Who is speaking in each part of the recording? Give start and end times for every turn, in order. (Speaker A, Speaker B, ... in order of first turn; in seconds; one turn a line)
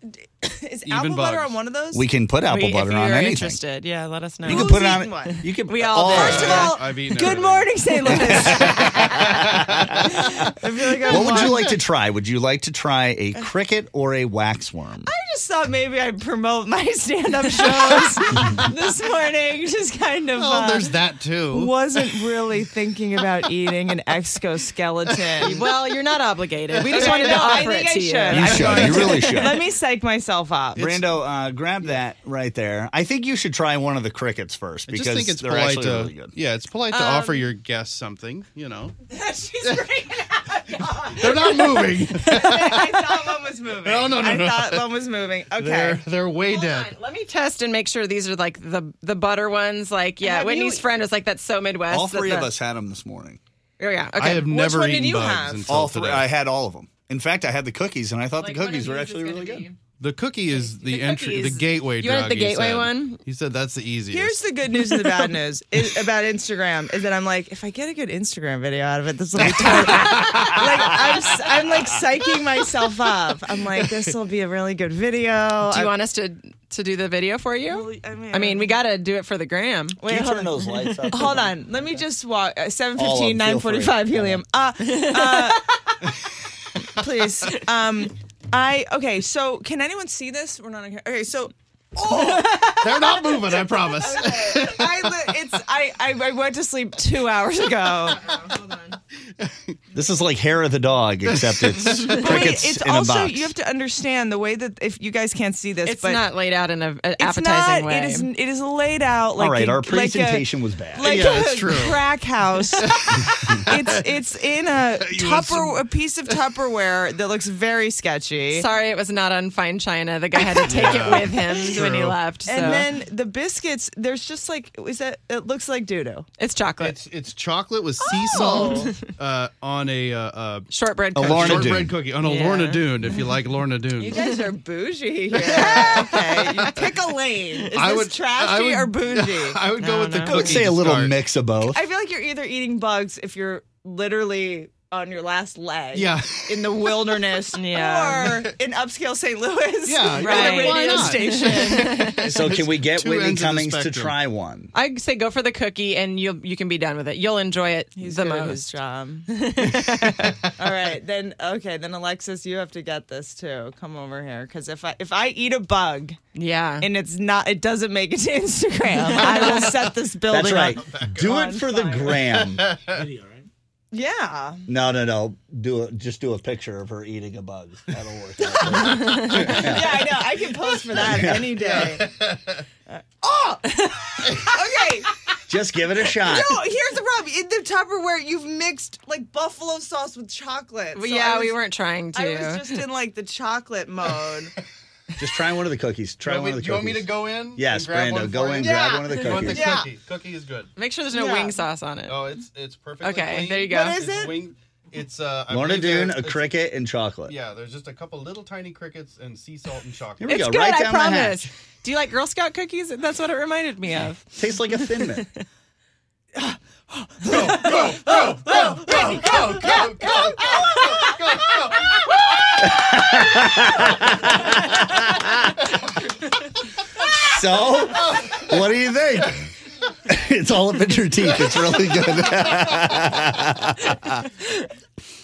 Speaker A: 0.2-2.1
Speaker B: 0.8-1.6
Speaker C: 1.9-3.6
Speaker D: 2.4-6.8
Speaker C: 4.4-6.7
Speaker A: 4.4-5.4
Speaker A: 6.0-9.4
Speaker B: 6.1-10.5
Speaker C: 8.0-10.5
Speaker A: 10.5-11.7
Speaker C: 11.1-15.1
Speaker A: 15.1-21.0
Speaker B: 20.3-22.4
Speaker A: 21.5-25.6
Speaker D: 25.4-29.3
Speaker B: 26.8-27.7
Speaker A: 26.8-31.0
Speaker C: 28.3-29.6
Speaker B: 28.3-29.1
Speaker C: 30.8-36.3
Speaker B: 34.9-39.0
Speaker D: 36.9-37.3
Speaker A: 37.0-37.4
Speaker D: 39.1-41.8
Speaker B: 39.6-40.0
Speaker A: 40.7-41.6
Speaker B: 41.0-44.9
Speaker A: 42.2-46.0
Speaker B: 45.5-46.9
Speaker D: 46.4-52.5
Speaker A: 50.2-50.9
Speaker C: 51.9-53.4
Speaker D: 53.8-54.4
Speaker B: 54.1-56.3
Speaker A: 54.3-55.8
Speaker C: 55.7-59.6
Speaker D: 58.4-59.8
Speaker B: 60.0-65.2
Speaker D: 60.5-63.2
Speaker A: 64.1-75.9
Speaker B: 69.4-71.3
Speaker D: 69.5-70.3
Speaker D: 75.6-80.0
Speaker A: 77.7-78.8
Speaker A: 80.0-86.0
Speaker C: 80.0-82.0
Speaker D: 80.6-81.3
Speaker C: 83.0-84.4
Speaker D: 84.8-85.9
Speaker A: 86.8-98.3
Speaker B: 92.1-95.4
Speaker B: 99.4-99.8
Speaker C: 99.9-103.5
Speaker B: 101.2-102.4
Speaker A: 102.1-106.3
Speaker D: 105.8-108.3
Speaker A: 107.2-118.7
Speaker C: 109.4-111.4
Speaker B: 111.0-114.0
Speaker B: 114.8-116.3
Speaker D: 118.5-122.9
Speaker B: 120.4-122.2
Speaker A: 122.5-126.2
Speaker D: 126.4-127.0
Speaker B: 126.8-134.2
Speaker A: 128.2-128.9
Speaker D: 128.3-129.1
Speaker D: 130.7-133.3
Speaker C: 131.1-131.9
Speaker A: 134.0-139.6
Speaker D: 134.1-134.4
Speaker B: 135.4-136.8
Speaker D: 135.4-136.1
Speaker B: 137.7-141.1
Speaker D: 139.8-140.6
Speaker C: 140.2-141.8
Speaker A: 141.6-152.0
Speaker B: 145.9-147.2
Speaker D: 147.5-148.4
Speaker B: 149.8-154.2
Speaker D: 150.1-152.3
Speaker C: 152.2-154.7
Speaker D: 154.7-158.6
Speaker A: 157.9-159.3
Speaker D: 159.3-160.4
Speaker A: 160.5-166.2
Speaker D: 166.3-166.9
Speaker A: 166.8-172.2
Speaker B: 169.2-169.7
Speaker C: 170.3-172.7
Speaker B: 170.8-171.3
Speaker B: 172.0-173.2
Speaker A: 173.9-174.7
Speaker C: 174.7-180.2
Speaker A: 178.4-182.1
Speaker D: 179.1-179.5
Speaker C: 180.9-181.7
Speaker B: 181.7-182.6
Speaker A: 182.9-185.1
Speaker B: 184.3-184.6
Speaker C: 185.5-186.6
Speaker A: 186.1-191.6
Speaker D: 190.9-192.8
Speaker A: 192.1-194.5
Speaker C: 195.2-199.8
Speaker B: 196.2-200.7
Speaker A: 198.6-199.9
Speaker D: 200.8-202.3
Speaker A: 201.1-201.6
Speaker B: 202.1-206.6
Speaker D: 203.0-204.0
Speaker A: 203.6-204.4
Speaker C: 205.5-207.3
Speaker B: 207.3-210.4
Speaker C: 210.2-211.5
Speaker D: 210.2-215.4
Speaker C: 214.3-215.3
Speaker B: 217.2-222.5
Speaker D: 218.3-219.1
Speaker A: 218.8-219.8
Speaker A: 220.4-220.9
Speaker C: 222.6-225.3
Speaker C: 227.1-229.4
Speaker B: 228.0-228.4
Speaker C: 230.0-234.3
Speaker B: 231.4-233.0